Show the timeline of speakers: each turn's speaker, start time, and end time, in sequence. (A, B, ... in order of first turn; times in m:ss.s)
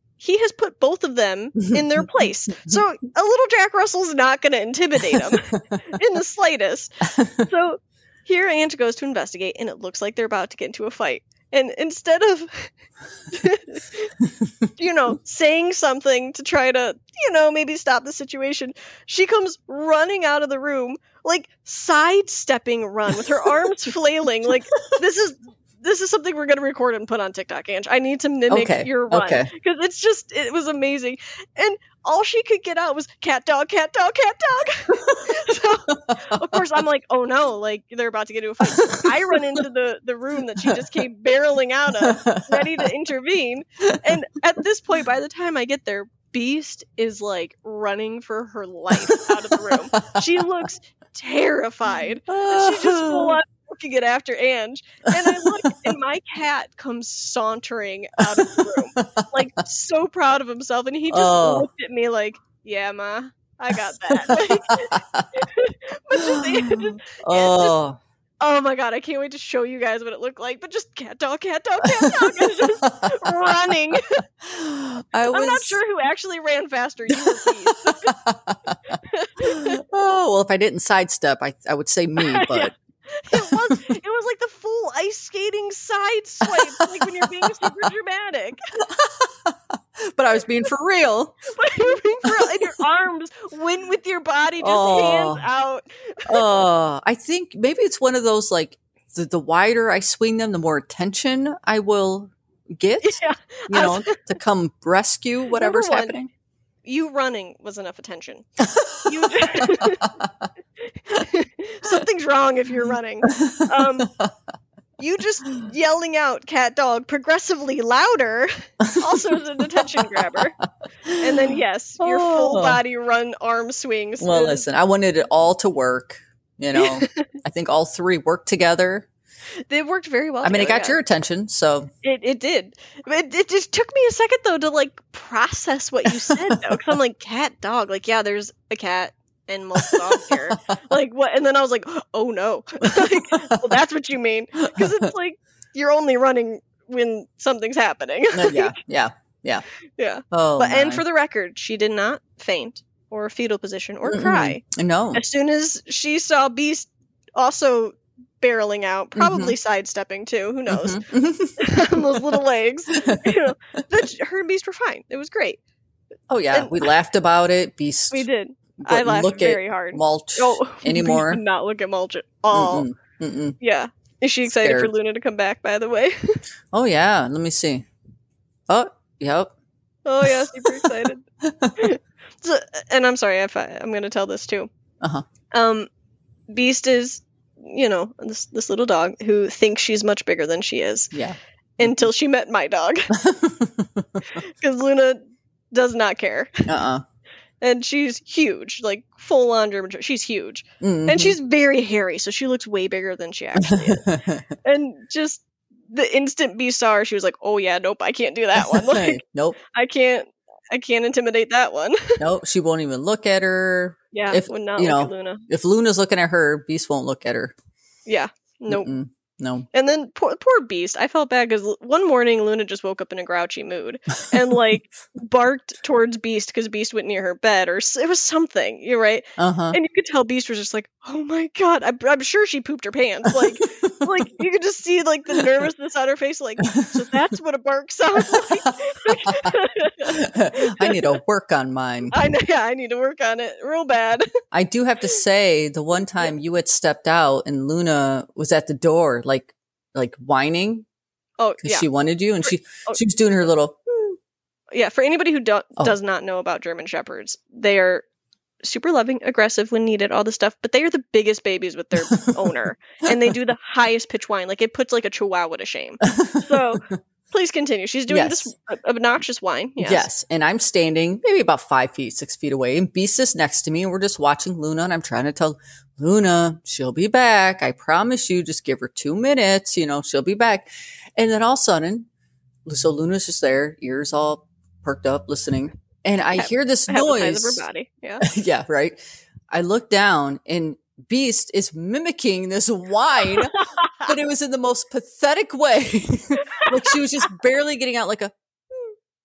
0:00.2-0:12.7 A
0:01.7-0:02.0 B
0:05.1-0:05.4 B
0:07.2-0:07.5 B
0:13.3-0:14.1 A
0:14.8-1:07.8 A
0:28.5-0:29.5 B
0:34.9-0:35.4 B
0:35.9-0:36.4 B
0:38.7-0:39.6 B
0:42.0-0:42.9 B
0:49.1-0:50.7 B
0:52.3-0:53.4 B
0:55.1-0:55.7 B
0:58.2-0:59.3 B
1:01.1-1:01.7 B
1:03.9-1:05.3 B
1:06.2-1:08.0 B
1:08.4-1:14.2 A
1:11.8-1:15.8 B
1:15.3-1:18.2 A
1:17.2-1:22.8 B
1:19.0-1:19.8 A
1:22.2-1:28.6 A
1:23.3-1:23.8 B
1:26.4-1:27.9 B
1:28.8-1:32.8 B
1:31.5-1:36.6 A
1:34.6-1:35.4 B
1:36.3-1:43.2 B
1:43.0-1:44.2 A
1:43.7-1:46.3 B
1:45.5-1:46.2 A
1:46.8-1:48.5 A
1:48.6-1:50.3 B
1:49.0-1:50.1 A
1:50.8-1:54.1 A
1:53.3-1:54.3 B
1:55.0-2:00.6 A
1:58.8-2:01.5 B
2:01.2-2:04.7 A
2:02.0-2:02.8 B
2:04.2-2:09.1 B
2:06.8-2:07.3 A
2:09.7-2:11.0 A
2:10.4-2:11.9 B
2:12.0-2:28.8 A
2:16.1-2:17.0 B
2:19.8-2:20.8 B
2:22.8-2:23.7 B
2:24.7-2:25.1 B
2:28.3-2:29.6 B
2:30.0-2:34.6 A
2:30.3-2:31.0 B
2:34.1-2:35.2 B
2:35.1-2:41.0 A
2:39.2-2:39.6 B
2:40.7-2:42.4 B
2:41.6-2:45.6 A
2:42.9-2:43.5 B
2:46.3-2:48.3 B
2:46.5-2:46.9 A
2:48.1-2:52.9 A
2:48.8-2:51.4 B
2:52.5-2:53.6 B
2:53.6-2:56.4 A
2:54.4-2:54.9 B
2:56.7-2:57.9 B
2:58.7-2:59.5 B
3:00.1-3:01.2 A
3:00.2-3:01.8 B
3:01.8-3:04.7 A
3:05.5-3:05.9 A
3:06.5-3:11.1 A
3:11.1-3:12.1 B
3:11.8-3:13.2 A
3:13.1-3:14.3 B
3:14.3-3:15.2 A
3:15.7-3:16.7 A
3:16.7-3:17.0 B
3:17.6-3:24.1 A
3:20.8-3:21.4 B
3:23.6-3:24.5 B
3:24.6-3:29.2 A
3:28.6-3:29.6 B
3:29.7-3:32.2 A
3:32.2-3:37.5 B
3:34.1-3:35.4 A
3:38.1-3:38.9 A
3:38.7-3:39.7 B
3:39.7-4:01.0 A
3:49.4-3:49.8 B
3:53.3-3:54.2 B
3:58.2-4:02.1 B
4:02.1-4:04.3 A
4:04.5-4:10.9 B
4:11.4-4:11.9 A
4:11.6-4:13.8 B
4:14.7-4:18.0 A
4:18.6-4:30.1 A
4:22.1-4:22.4 B
4:26.0-4:26.9 B
4:28.1-4:28.5 B
4:29.8-4:42.1 B
4:42.7-4:47.6 B
4:46.4-4:48.3 A
4:48.2-4:49.0 B
4:49.5-4:58.9 B
4:53.3-4:54.1 A
4:56.4-4:57.0 A